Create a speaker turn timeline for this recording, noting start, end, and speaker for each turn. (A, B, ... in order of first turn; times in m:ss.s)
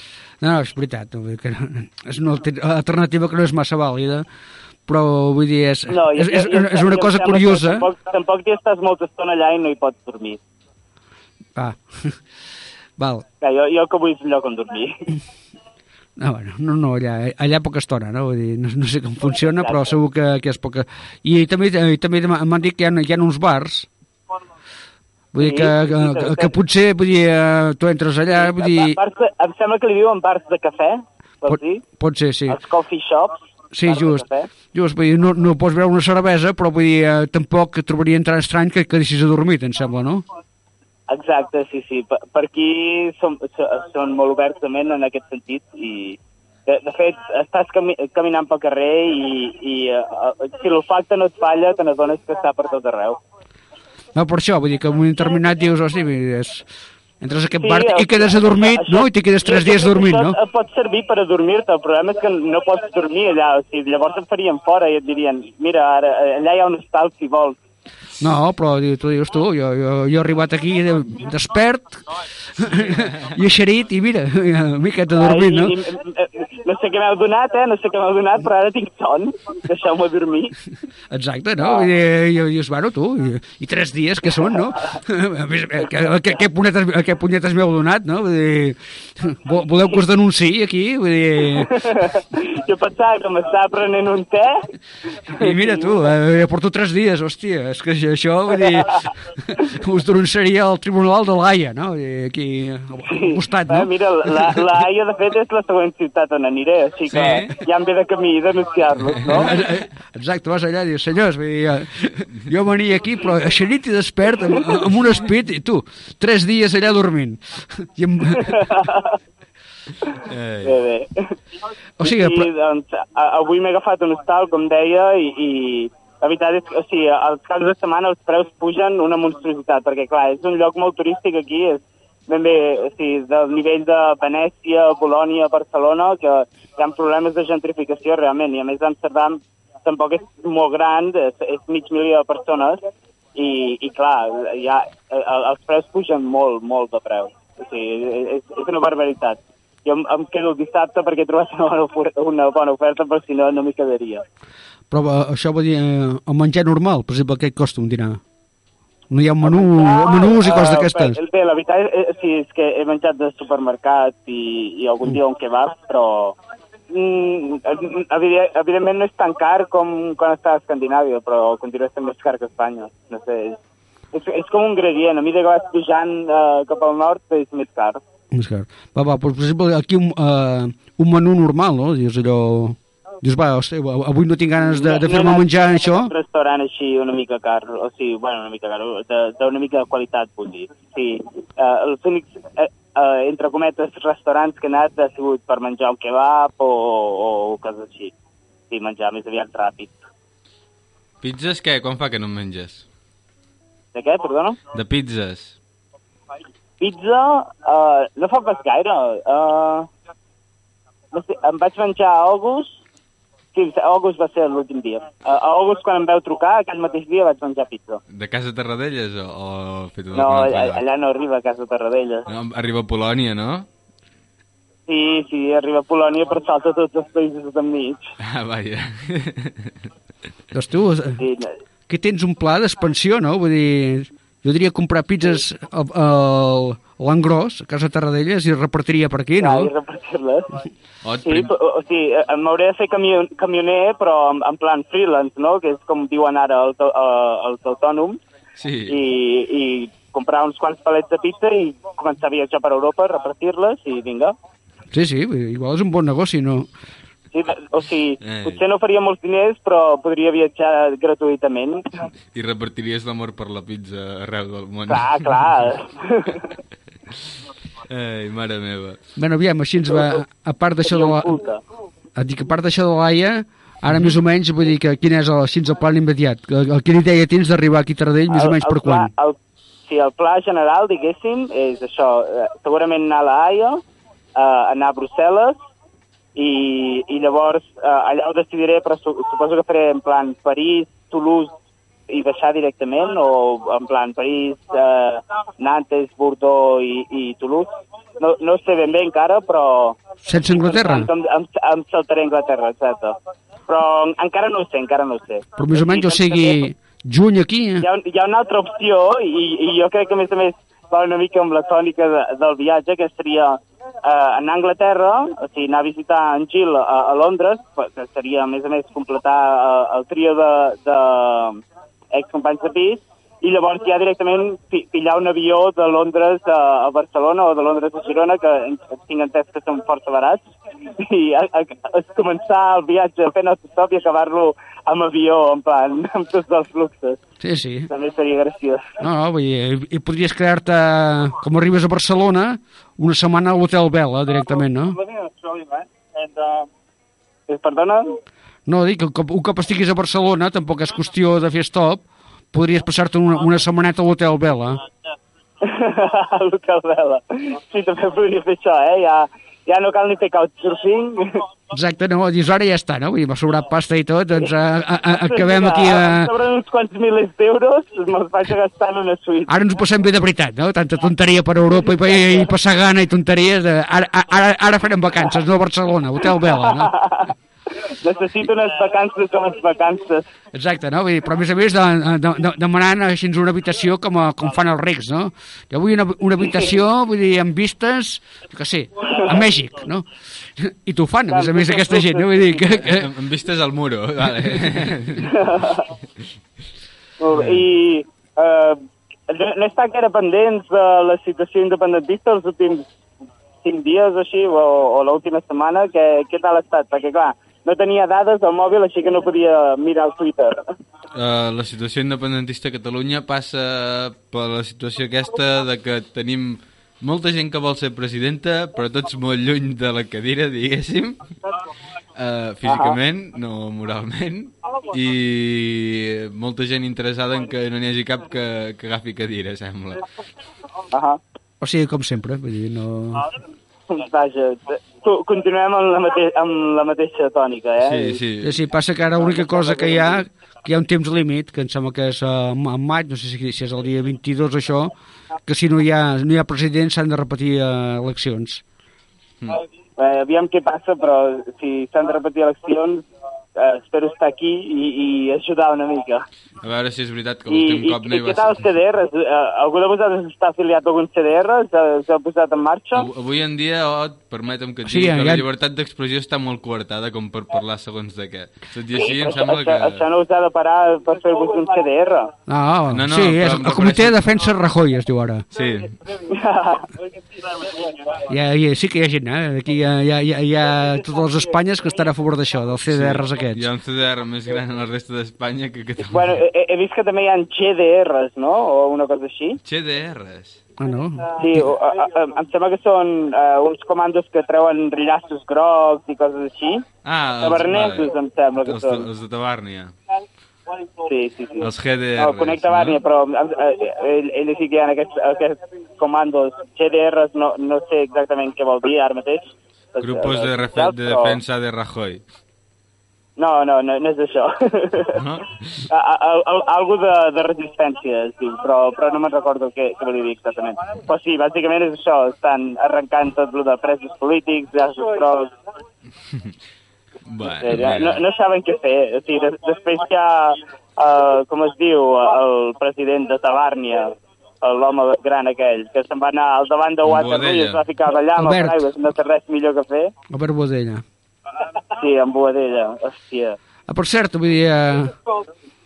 0:00.4-0:04.3 A
0:04.9-0:07.9 A
0:05.9-0:10.4 B
0:11.6-0:12.2 A
0:13.0-0:13.2 A
0:13.4-0:15.0 B
0:16.2-0:23.9 A
0:19.6-0:20.0 B
0:25.3-0:29.0 A
0:25.4-0:26.5 B
0:28.4-0:31.8 B
0:31.5-0:32.6 A
0:32.5-0:34.5 B
0:33.7-0:40.2 A
0:41.1-0:53.2 B
0:54.2-0:56.7 A
0:57.2-1:00.4 A
0:57.6-1:07.6 B
1:08.2-1:12.0 A
1:12.6-1:15.8 A
1:15.2-1:20.6 B
1:21.1-1:31.9 A
1:31.6-1:34.6 B
1:35.3-1:35.9 B
1:35.3-1:44.6 A
1:43.1-1:49.6 B
1:47.1-1:47.5 C
1:49.3-1:58.9 A
1:58.5-1:59.2 B
2:00.2-2:01.4 B
2:00.2-2:00.8 C
2:02.0-2:02.5 A
2:02.0-2:22.8 B
2:23.4-2:34.2 B
2:34.9-2:38.2 A
2:39.1-2:41.2 A
2:39.4-2:46.4 B
2:46.9-2:53.6 B
2:54.1-2:58.0 B
2:58.3-3:06.1 A
3:04.7-3:18.1 B
3:18.7-3:20.0 B
3:21.2-3:22.8 C
3:23.9-3:24.6 B
3:24.7-3:25.6 C
3:26.8-3:29.9 B
3:31.1-3:32.8 B
3:33.5-3:38.0 B
3:38.1-3:40.8 C
3:40.2-3:42.3 B
3:42.3-3:43.7 C
3:44.9-3:48.1 B
3:48.2-3:49.8 C
3:50.5-3:51.2 A
3:51.2-3:51.5 B
3:51.9-3:59.7 A
3:59.4-4:00.6 B
4:01.0-4:01.5 C
4:01.2-4:08.2 B
4:08.6-4:09.0 C
4:08.9-4:14.4 B
4:14.9-4:16.7 A
4:17.3-4:22.1 B
4:18.2-4:18.6 C
4:22.3-4:25.6 C
4:24.9-4:26.5 B
4:27.9-4:29.0 C
4:29.2-4:31.4 A
4:30.9-4:31.6 B
4:32.2-4:39.1 A
4:33.9-4:34.2 C
4:38.3-4:39.4 B
4:39.9-4:43.8 B
4:44.4-4:45.6 B
4:46.4-4:51.5 B
4:52.1-4:57.7 B
4:58.2-5:00.0 B
5:00.2-5:01.1 A
5:00.5-5:03.2 B
5:03.7-5:06.6 B
5:05.6-5:07.9 A
5:07.8-5:30.4 B
5:30.9-5:37.2 B
5:37.4-5:37.9 A
5:37.9-5:39.0 B
5:39.0-5:45.0 A
5:45.1-5:46.7 B
5:47.5-5:48.2 B
5:48.7-5:54.8 A
5:55.6-6:01.4 B
6:01.7-6:06.3 A
6:05.3-6:09.5 B
6:09.5-6:16.9 A
6:16.6-6:17.3 B
6:17.8-6:20.2 B
6:20.5-6:33.1 A
6:31.3-6:32.6 B
6:32.8-6:35.4 C
6:35.2-6:35.9 B
6:37.2-6:42.8 B
6:43.6-6:50.7 B
6:51.2-7:01.2 C
7:02.2-7:10.0 C
7:02.7-7:03.0 B
7:10.9-7:11.2 B
7:11.6-7:13.3 A
7:13.9-7:18.2 B
7:17.8-7:18.6 C
7:18.4-7:24.9 A
7:19.2-7:20.2 B
7:25.5-7:28.6 A
7:30.0-7:33.0 B
7:33.6-7:36.2 B
7:36.6-7:38.7 C
7:37.5-7:43.1 B
7:43.0-7:50.0 C
7:44.9-7:45.4 A
7:49.0-7:52.3 B
7:52.5-7:55.5 A
7:52.9-7:54.2 C
7:55.5-7:56.0 C
7:56.2-7:56.9 B
7:58.3-8:03.6 A
8:02.9-8:06.4 C
8:06.0-8:09.6 B
8:09.6-8:10.6 C
8:10.8-8:11.7 A
8:11.4-8:16.9 B
8:17.0-8:20.0 C
8:17.4-8:19.1 B
8:21.0-8:31.4 B
8:21.6-8:23.0 C
8:30.0-8:32.2 C
8:33.4-8:35.2 B
8:35.1-8:35.8 C
8:35.9-8:45.5 B
8:46.3-8:46.6 C
8:47.3-8:48.2 C
8:47.4-9:00.1 B
8:57.0-8:57.8 C
8:58.4-8:58.9 A
9:00.3-9:01.0 A
9:01.9-9:03.6 B
9:03.9-9:05.2 A